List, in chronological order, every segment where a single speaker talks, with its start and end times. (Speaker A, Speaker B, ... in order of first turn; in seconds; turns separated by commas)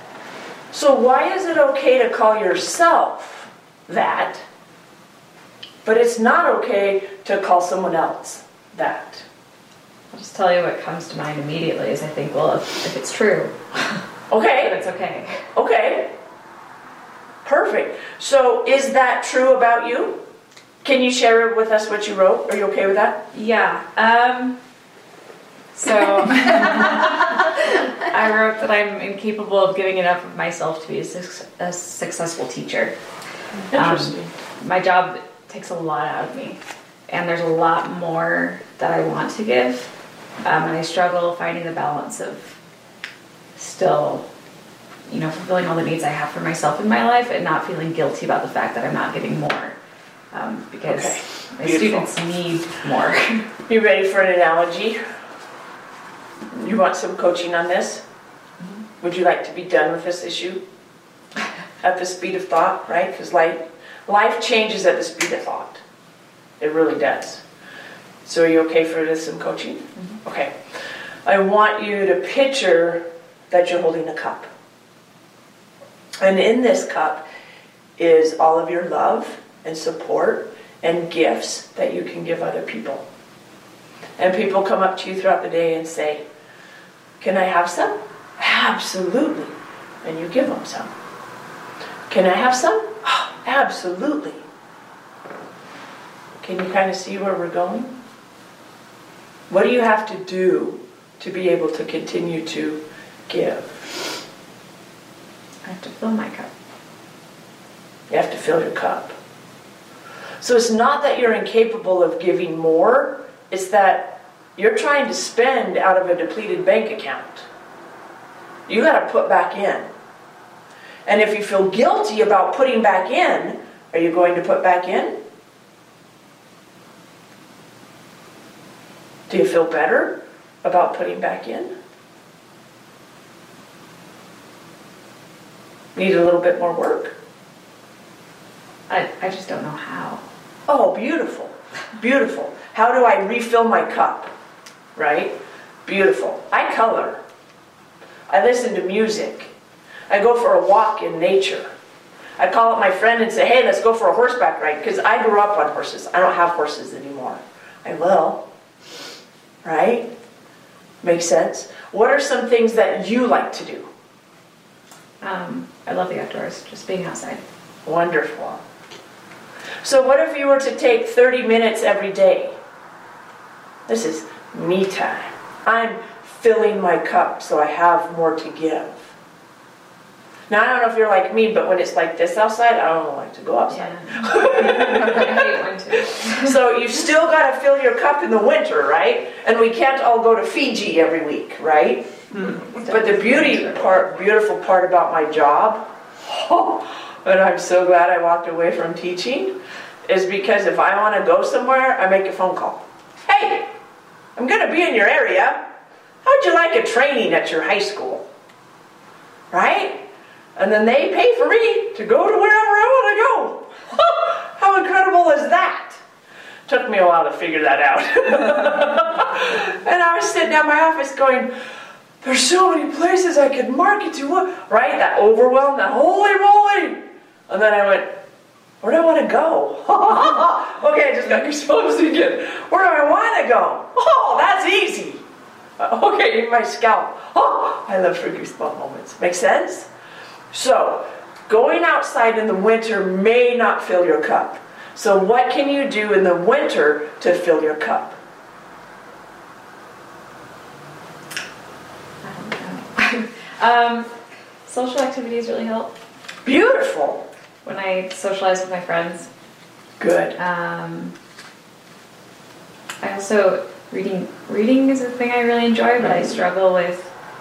Speaker A: 0.7-4.4, Speaker A: 5.8-9.2, Speaker B: 10.1-14.0, Speaker A: 14.3-14.8, Speaker B: 14.6-15.4, Speaker A: 15.5-16.1, Speaker A: 17.4-20.2, Speaker A: 20.8-23.2, Speaker B: 23.3-24.6, Speaker B: 25.7-32.9, Speaker B: 33.7-39.9, Speaker A: 33.7-34.3, Speaker B: 40.4-42.5, Speaker B: 43.5-44.2, Speaker B: 45.1-49.8, Speaker B: 50.3-53.5, Speaker A: 50.8-52.1, Speaker A: 53.7-55.0, Speaker A: 56.5-58.0, Speaker A: 59.0-60.6, Speaker A: 61.8-65.8, Speaker A: 66.6-67.4, Speaker A: 68.2-70.5, Speaker A: 71.2-74.5, Speaker A: 76.2-77.2, Speaker A: 78.0-83.0, Speaker A: 84.2-86.2, Speaker A: 87.2-90.9, Speaker A: 92.1-94.4, Speaker A: 96.4-98.0, Speaker A: 99.5-103.7, Speaker B: 105.6-106.5, Speaker A: 108.1-109.1, Speaker A: 110.4-117.5, Speaker A: 118.7-119.9, Speaker A: 121.0-125.2, Speaker A: 129.3-131.7, Speaker A: 135.9-137.1, Speaker B: 138.9-140.2, Speaker A: 140.7-144.3, Speaker A: 144.9-147.2, Speaker A: 148.3-149.5, Speaker A: 150.1-151.7, Speaker A: 152.4-158.4, Speaker A: 159.6-160.1, Speaker A: 161.0-163.9, Speaker B: 165.2-167.4, Speaker A: 167.8-168.6, Speaker A: 169.8-172.6, Speaker A: 173.9-179.1, Speaker A: 180.5-185.6, Speaker B: 183.7-186.6, Speaker A: 186.2-192.1, Speaker B: 192.5-194.0, Speaker A: 192.8-203.7, Speaker A: 204.3-205.6, Speaker A: 206.2-208.3, Speaker A: 209.5-216.0, Speaker A: 216.7-221.5, Speaker A: 222.2-228.2, Speaker A: 228.8-235.2, Speaker A: 235.8-239.9, Speaker A: 240.5-248.2, Speaker B: 252.2-254.1, Speaker B: 254.6-255.9, Speaker A: 256.4-257.3, Speaker B: 257.6-259.3, Speaker A: 260.0-260.4, Speaker B: 260.4-261.1, Speaker B: 263.0-267.1, Speaker A: 266.0-266.3